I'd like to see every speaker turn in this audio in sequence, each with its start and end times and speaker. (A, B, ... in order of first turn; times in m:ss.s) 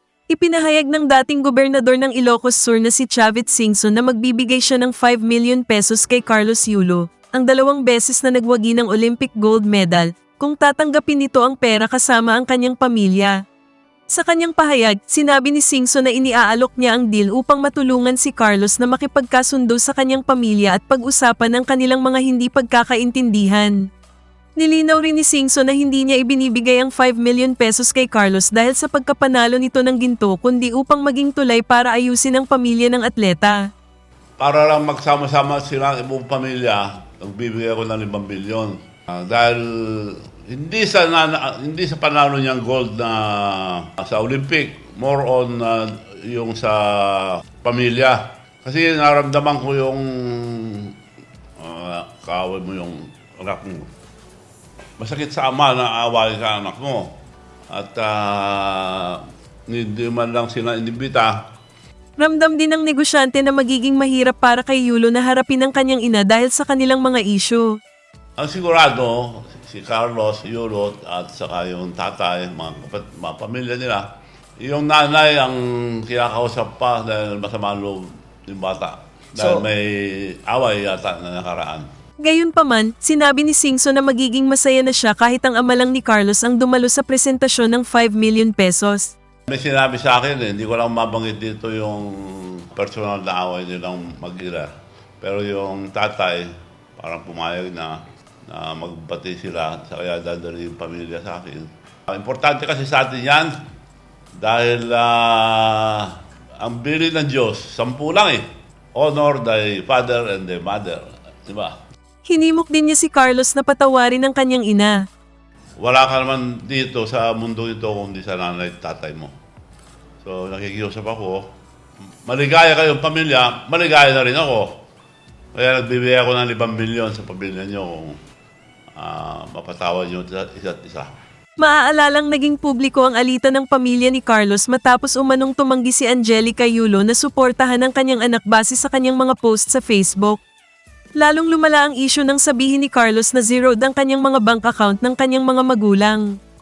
0:00.3-0:13.4 A
0:14.1-0:23.8 A
0:24.6-0:33.7 A
0:34.4-0:51.0 B
0:51.6-0:53.9 B
0:55.0-0:57.2 B
0:57.7-1:01.4 B
1:02.2-1:07.8 A
1:08.4-1:14.1 B
1:14.6-1:21.9 B
1:22.2-1:29.1 A
1:29.5-1:34.7 B
1:35.2-1:43.6 B
1:44.4-1:48.4 B
1:48.9-1:51.8 B
1:52.2-1:55.0 A
1:55.8-1:59.3 B
2:00.2-2:01.5 B
2:02.2-2:04.8 B
2:05.5-2:08.2 B
2:09.0-2:11.1 B
2:11.6-2:20.4 A
2:21.2-2:26.3 A